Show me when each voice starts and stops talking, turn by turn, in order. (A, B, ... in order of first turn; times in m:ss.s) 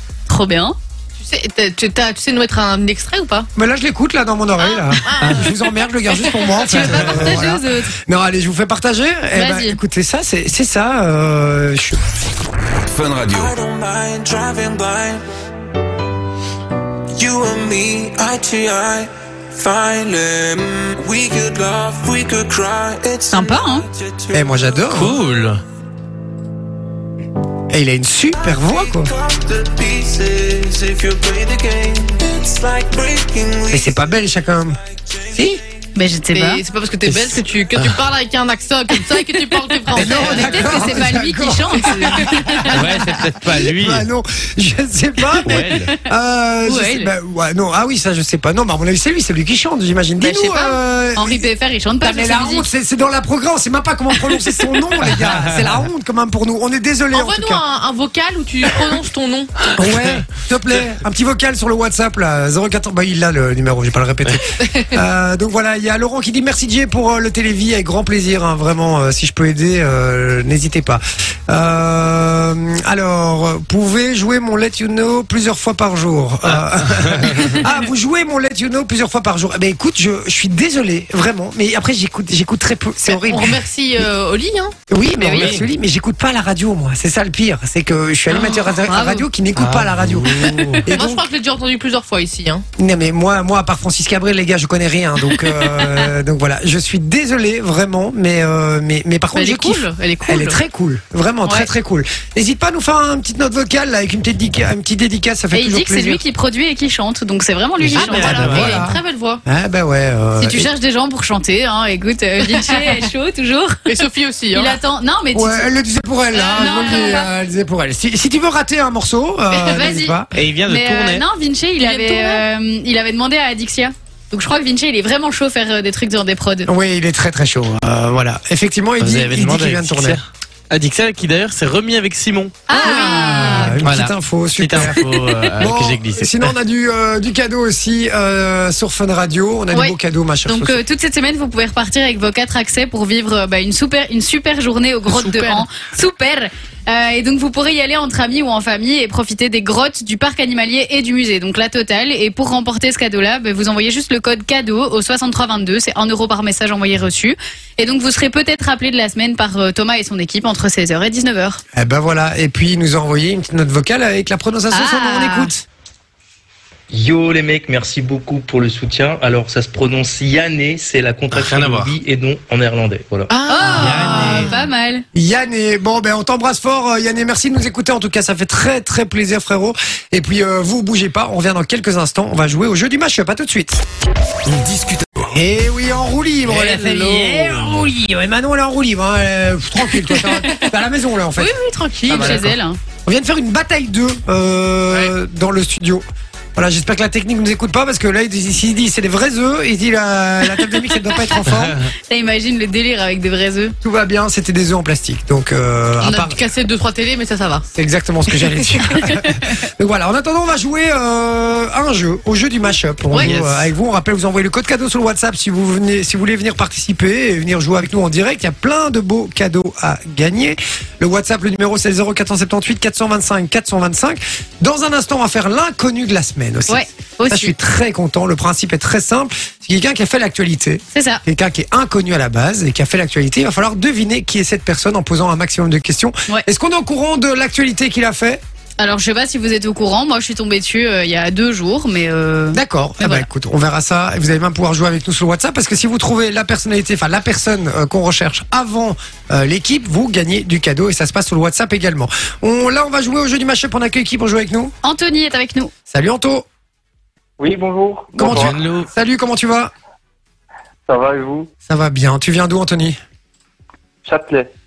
0:00.3-0:00.8 A
0:01.2-0:03.5 B
0:03.6-0:12.0 C
0:04.6-0:06.5 B
0:06.6-0:07.9 A
0:09.3-0:09.8 A
0:12.9-0:15.2 D
0:17.1-0:24.8 D
0:23.3-0:23.8 A
0:24.3-0:25.2 C
0:24.9-0:25.6 E
0:27.7-0:29.1 C
0:28.4-0:34.2 D
0:33.7-0:34.8 C
0:35.1-0:35.4 D
0:35.3-0:35.6 C
0:36.0-0:36.6 A
0:36.3-0:41.0 B
0:37.0-0:38.0 E
0:39.9-0:42.8 A
0:39.9-0:51.5 C
0:42.7-0:44.0 E
0:45.4-0:45.9 E
0:46.6-0:47.1 A
0:50.2-0:52.7 A
0:52.0-0:57.6 C
0:55.1-0:55.6 E
0:57.1-0:59.5 B
0:59.7-1:23.6 C
1:04.6-1:04.9 B
1:16.6-1:17.6 E
1:23.1-1:24.7 B
1:24.9-1:31.2 C
1:25.2-1:25.5 A
1:25.4-1:25.6 E
1:28.9-1:29.2 A
1:29.6-1:30.8 E
1:30.9-1:32.6 B
1:32.8-1:46.2 C
1:39.3-1:40.6 B
1:45.5-1:48.8 A
1:47.8-1:48.8 E
1:47.9-1:50.7 C
1:48.0-1:49.4 B
1:50.4-1:53.8 A
1:52.4-1:53.0 B
1:53.8-1:54.8 B
1:54.5-1:55.7 A
1:55.3-2:00.3 C
1:56.3-1:57.3 A
1:59.5-2:00.2 A
2:00.3-2:01.2 E
2:00.7-2:06.7 A
2:01.8-2:02.4 B
2:06.6-2:10.2 C
2:09.0-2:12.6 E
2:12.7-2:13.8 A
2:12.7-2:20.8 C
2:12.8-2:13.5 B
2:13.8-2:16.5 E
2:19.7-2:41.6 A
2:25.0-2:25.7 B
2:41.7-2:45.6 C
2:44.7-2:45.5 A
2:46.9-2:53.4 F
2:51.3-2:51.9 E
2:53.3-2:54.5 B
2:53.5-2:55.0 A
2:53.7-2:54.5 E
2:55.1-3:03.8 C
3:05.2-3:11.5 C
3:06.4-3:07.9 E
3:10.1-3:10.7 B
3:11.4-3:12.5 B
3:12.0-3:12.8 A
3:12.1-3:12.5 C
3:13.0-3:21.8 C
3:21.0-3:21.4 A
3:22.1-3:23.7 A
3:23.8-3:26.4 C
3:26.0-3:27.6 B
3:27.7-3:58.4 C
3:33.1-3:33.7 E
3:46.7-3:47.5 A
3:50.9-3:51.2 A
3:58.8-4:03.3 A
4:02.5-4:14.7 C
4:14.8-4:15.7 A
4:15.9-4:16.4 C
4:17.4-4:18.6 G
4:18.2-4:19.7 C
4:18.2-4:18.9 E
4:20.9-4:21.5 G
4:21.7-4:23.0 C
4:24.0-4:24.5 G